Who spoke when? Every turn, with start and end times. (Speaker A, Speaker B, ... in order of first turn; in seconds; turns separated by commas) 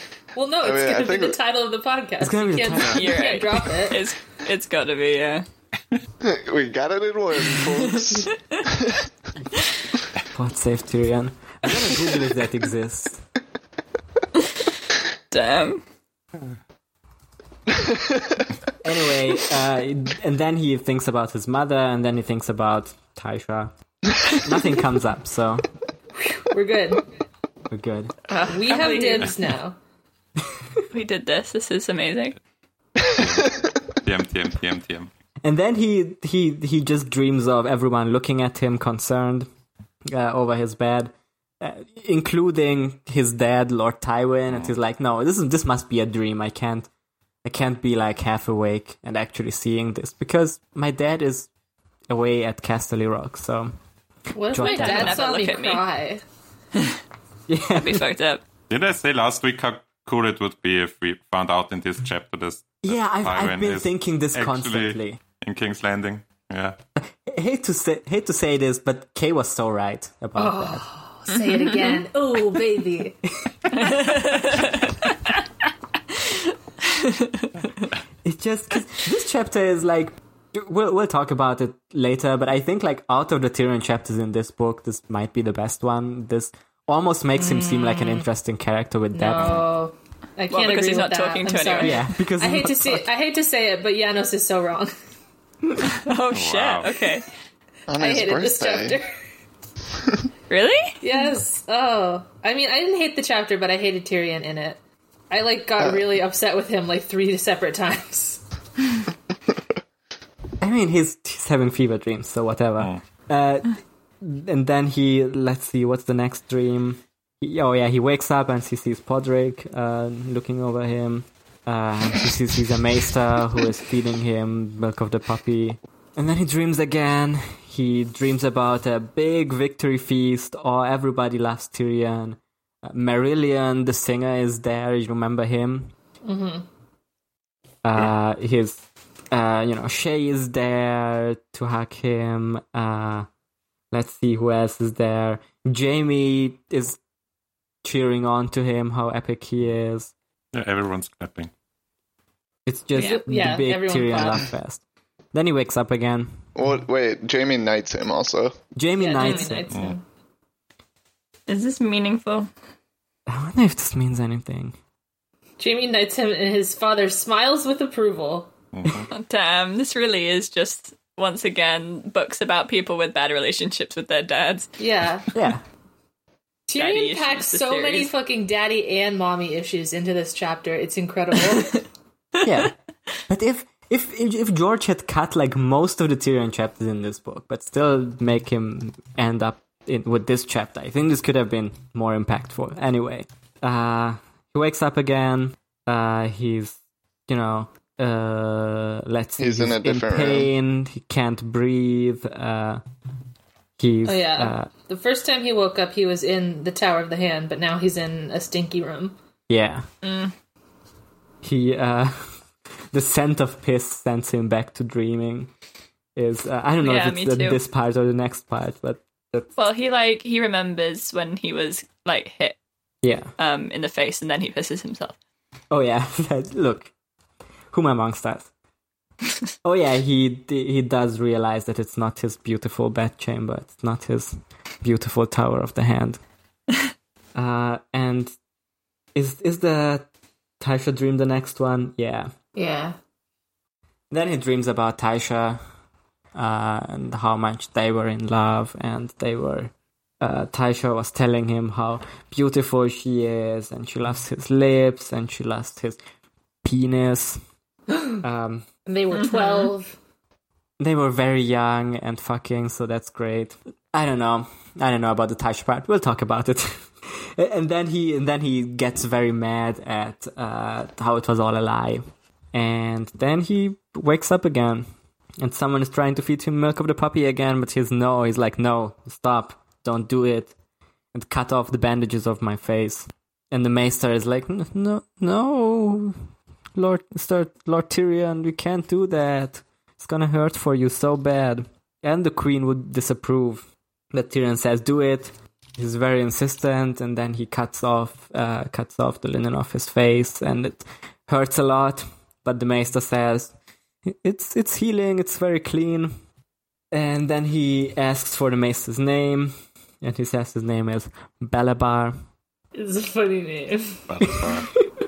Speaker A: 0.3-4.0, Speaker B: 0.6-1.4, Speaker C: 2.2-3.1, Speaker D: 2.8-5.5, Speaker B: 6.2-9.0, Speaker C: 10.3-13.2, Speaker D: 15.3-15.8, Speaker B: 17.7-18.4, Speaker C: 18.8-23.7, Speaker C: 24.3-25.6, Speaker A: 26.4-27.0, Speaker C: 27.7-28.1, Speaker D: 28.3-29.3, Speaker A: 28.5-29.8, Speaker D: 30.9-32.4, Speaker B: 33.0-33.4, Speaker E: 33.2-33.5, Speaker E: 34.0-35.1, Speaker C: 35.4-39.5, Speaker C: 40.1-46.9, Speaker C: 47.4-51.5, Speaker C: 52.1-53.7, Speaker A: 54.3-56.2, Speaker C: 54.5-55.2, Speaker D: 54.6-55.8, Speaker C: 57.5-58.0, Speaker D: 57.7-58.4, Speaker E: 58.7-66.8, Speaker C: 62.8-65.2, Speaker C: 67.0-70.9, Speaker A: 70.4-73.2, Speaker D: 71.3-72.0, Speaker D: 73.7-75.3, Speaker D: 76.8-77.5, Speaker C: 78.2-89.6, Speaker A: 87.4-88.3, Speaker A: 89.1-94.9, Speaker E: 89.3-89.7, Speaker D: 90.5-92.0, Speaker C: 91.8-93.1, Speaker D: 96.0-97.3, Speaker E: 96.3-96.9, Speaker B: 97.9-99.0, Speaker A: 98.0-99.1, Speaker D: 100.5-101.0, Speaker A: 101.0-104.8, Speaker A: 105.3-108.4, Speaker C: 110.6-135.9, Speaker A: 136.2-136.7, Speaker C: 137.8-143.3, Speaker C: 143.9-147.0, Speaker C: 147.8-150.1, Speaker E: 150.5-151.5, Speaker C: 152.7-154.8, Speaker A: 152.9-154.5, Speaker C: 155.3-156.4, Speaker B: 156.6-158.6, Speaker C: 158.7-159.7, Speaker A: 159.0-160.0, Speaker D: 159.2-159.5, Speaker D: 161.5-162.5, Speaker C: 163.3-164.8, Speaker A: 165.6-168.5, Speaker E: 168.7-169.1, Speaker D: 169.1-174.7, Speaker A: 174.8-175.2, Speaker C: 175.3-175.6, Speaker A: 176.7-181.8, Speaker D: 176.8-178.1, Speaker C: 182.4-182.7, Speaker C: 183.3-202.8, Speaker B: 199.4-200.5, Speaker C: 203.8-204.7, Speaker A: 204.0-209.2, Speaker C: 209.5-209.9, Speaker D: 210.0-210.3, Speaker C: 211.4-212.4, Speaker C: 212.9-215.5, Speaker C: 216.2-219.5, Speaker D: 216.8-217.6, Speaker D: 219.5-222.6, Speaker C: 223.0-223.3, Speaker D: 223.4-225.2, Speaker C: 225.7-226.9, Speaker C: 227.7-228.5, Speaker C: 229.6-236.2, Speaker C: 237.3-238.3, Speaker C: 239.1-240.1, Speaker C: 240.6-242.3, Speaker A: 242.5-242.9, Speaker C: 244.1-245.6, Speaker C: 246.3-256.0, Speaker C: 256.6-257.4, Speaker C: 258.2-258.7, Speaker A: 258.9-259.9, Speaker D: 259.1-259.7, Speaker C: 260.8-274.9, Speaker C: 275.4-280.5, Speaker C: 281.1-286.2, Speaker C: 286.7-303.5, Speaker C: 304.1-306.1, Speaker C: 306.9-312.1, Speaker A: 312.7-314.0, Speaker E: 314.1-314.7, Speaker C: 314.2-314.6